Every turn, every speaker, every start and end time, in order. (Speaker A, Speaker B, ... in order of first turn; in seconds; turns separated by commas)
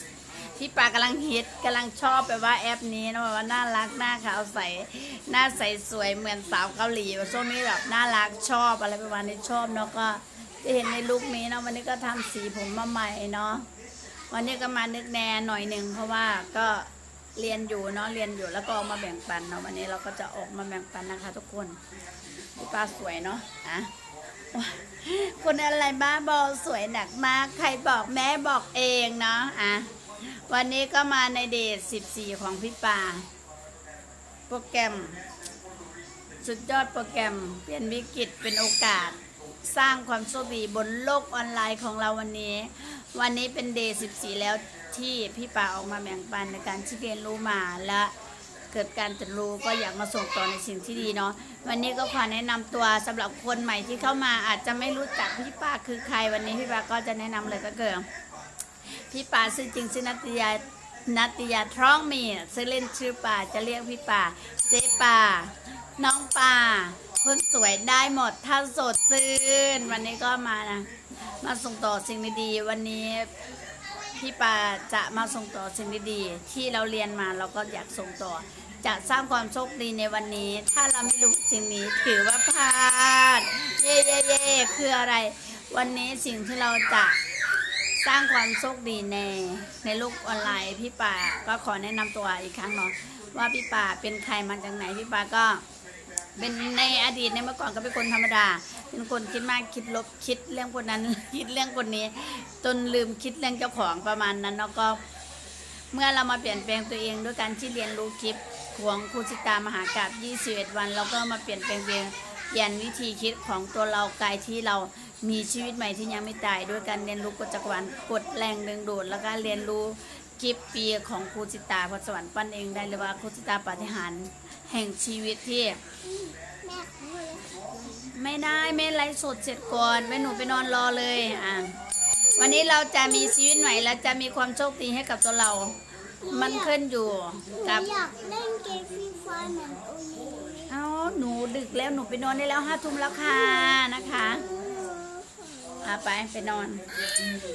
Speaker A: 0.5-13.7, Speaker A: 14.3-21.8, Speaker A: 22.6-23.9, Speaker A: 24.5-33.3, Speaker A: 34.5-35.2, Speaker A: 36.4-48.1, Speaker A: 48.7-58.0, Speaker A: 59.1-73.3, Speaker A: 74.2-87.2, Speaker A: 88.0-95.6, Speaker A: 96.4-105.0, Speaker A: 105.9-125.8, Speaker B: 126.1-128.0, Speaker A: 128.1-131.8, Speaker A: 132.3-137.9, Speaker B: 136.2-136.7, Speaker B: 137.6-140.7, Speaker A: 140.7-144.5, Speaker B: 144.5-145.7, Speaker A: 145.8-146.8